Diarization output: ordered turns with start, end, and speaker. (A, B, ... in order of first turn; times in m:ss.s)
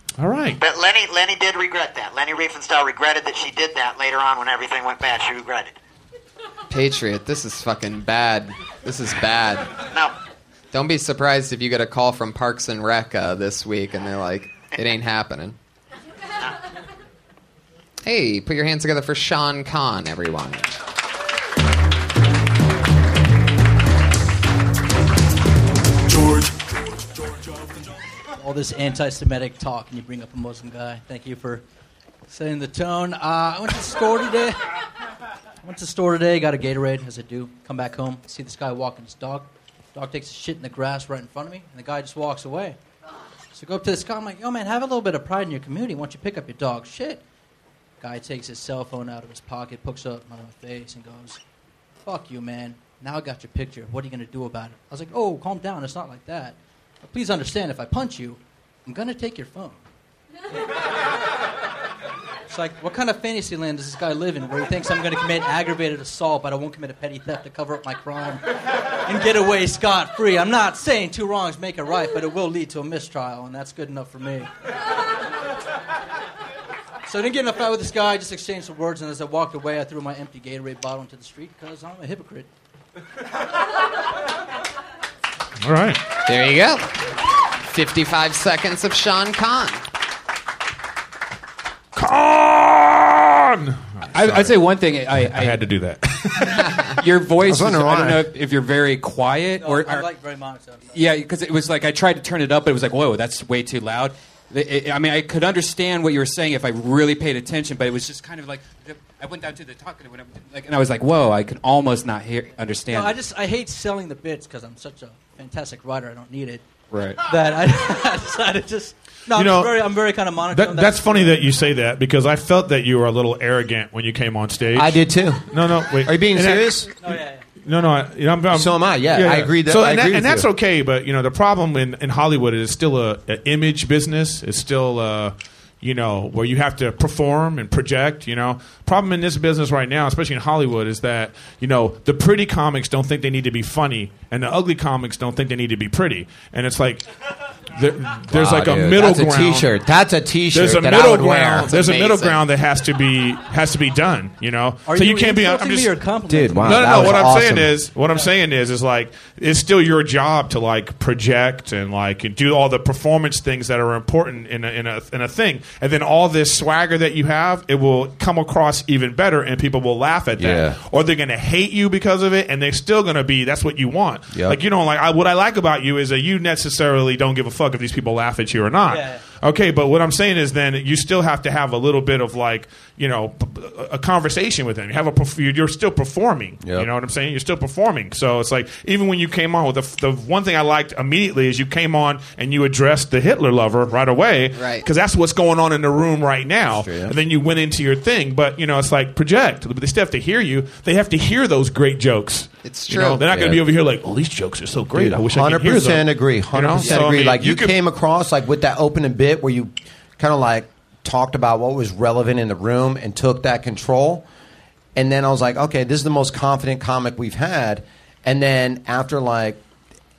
0:00.2-0:00.6 A
0:00.6-0:05.7 B
0:06.7-0:09.7 C
0:10.7-0:15.6 C
0:18.0-0:20.7 C
0:28.4-0:31.6 D
0:32.3-0:34.6 D
0:35.6-0:42.8 D
0:43.5-0:47.2 D
0:48.0-0:51.4 D
0:52.0-0:59.8 D
1:02.5-1:08.4 D
1:09.0-1:14.5 D
1:17.0-1:22.5 D
1:25.6-1:26.0 A
1:26.2-1:27.0 C
1:27.6-1:29.8 C
1:31.9-1:34.6 A
1:34.1-1:35.6 E
1:35.2-1:36.8 A
1:37.0-1:40.1 E
1:37.4-1:38.2 F
1:39.6-1:41.0 D
1:40.9-1:53.2 E
1:52.9-1:56.6 D
1:56.9-1:57.2 E
1:57.2-2:01.5 D
1:59.3-2:06.9 A
2:04.7-2:05.5 F
2:06.0-2:06.9 F
2:07.0-2:07.4 D
2:07.6-2:27.0 A
2:08.5-2:10.5 F
2:27.7-2:29.7 A
2:28.3-2:31.7 F
2:30.5-2:36.0 A
2:31.5-2:32.4 C
2:34.8-2:37.4 D
2:36.3-2:37.7 F
2:36.6-3:27.7 A
2:50.4-2:50.8 F
2:54.3-2:54.6 F
2:58.8-2:59.2 D
3:06.6-3:06.9 F
3:14.5-3:14.8 C
3:16.7-3:17.1 F
3:22.6-3:23.2 C
3:23.2-3:23.6 F
3:24.9-3:34.2 F
3:26.8-3:27.1 C
3:34.9-3:39.6 F